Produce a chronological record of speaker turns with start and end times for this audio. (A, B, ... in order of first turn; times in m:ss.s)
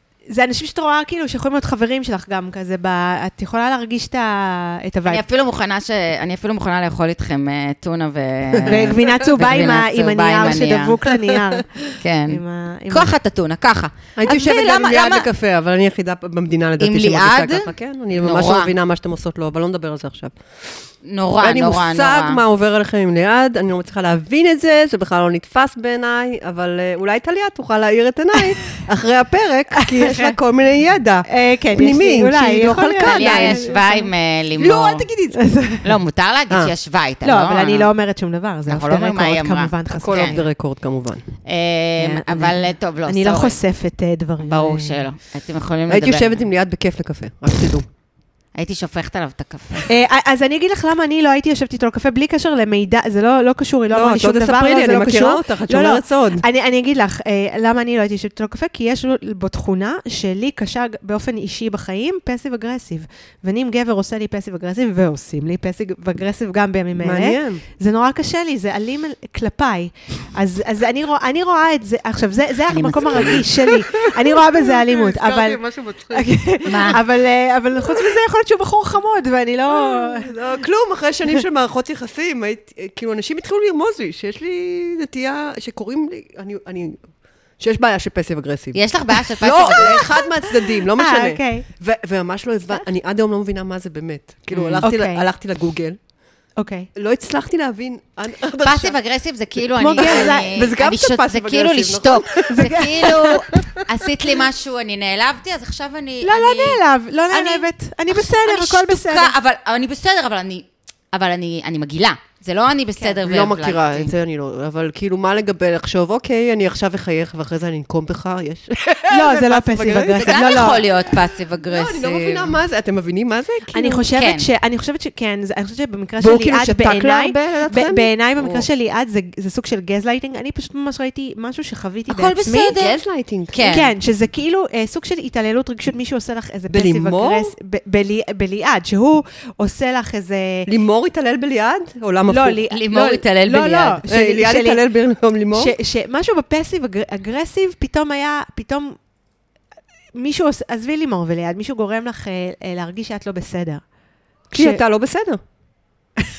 0:00.3-0:05.2 A
0:05.1-0:11.0 B
0:08.5-0:09.0 C
0:08.7-0:13.1 A
0:12.0-0:15.3 B
0:14.2-0:20.4 C
0:16.8-0:18.7 B
0:21.0-0:22.4 B
0:21.4-0:33.8 C
0:29.7-0:30.4 A
0:31.3-0:34.1 A
0:33.0-0:35.1 B
0:34.6-0:35.4 C
0:35.4-0:36.0 A
0:35.8-0:37.9 B
0:37.2-0:40.5 A
0:38.7-0:40.4 B
0:40.0-0:41.2 C
0:41.5-0:43.6 B
0:42.0-0:45.0 A
0:44.4-0:46.5 B
0:45.9-0:47.9 C
0:48.6-0:49.9 B
0:49.9-1:20.4 A
0:53.9-0:56.4 C
1:07.0-1:07.6 C
1:12.8-1:13.4 B
1:12.8-1:16.3 C
1:16.7-1:17.0 B
1:19.7-1:27.0 C
1:27.6-1:36.0 C
1:28.8-1:30.2 B
1:29.7-1:31.7 A
1:34.5-1:34.9 B
1:34.8-1:35.3 A
1:36.6-1:36.9 A
1:37.0-1:39.0 C
1:38.6-1:46.8 B
1:39.8-1:40.5 A
1:40.0-1:43.9 C
1:42.5-1:43.4 A
1:46.2-1:49.3 A
1:47.3-1:54.1 B
1:53.2-2:01.2 C
1:59.1-2:00.8 A
2:00.2-2:02.6 B
2:01.7-2:04.0 C
2:03.7-2:12.8 A
2:04.2-2:04.5 B
2:06.2-2:08.7 C
2:12.1-2:13.0 B
2:12.7-2:13.6 C
2:13.5-2:13.9 B
2:13.6-2:20.7 A
2:16.7-2:17.5 C
2:20.7-2:22.6 C
2:22.3-2:24.8 A
2:22.7-2:24.0 B
2:24.1-2:25.7 C
2:25.6-2:29.0 A
2:30.2-2:33.8 A
2:34.5-2:34.8 A
2:34.5-2:35.4 C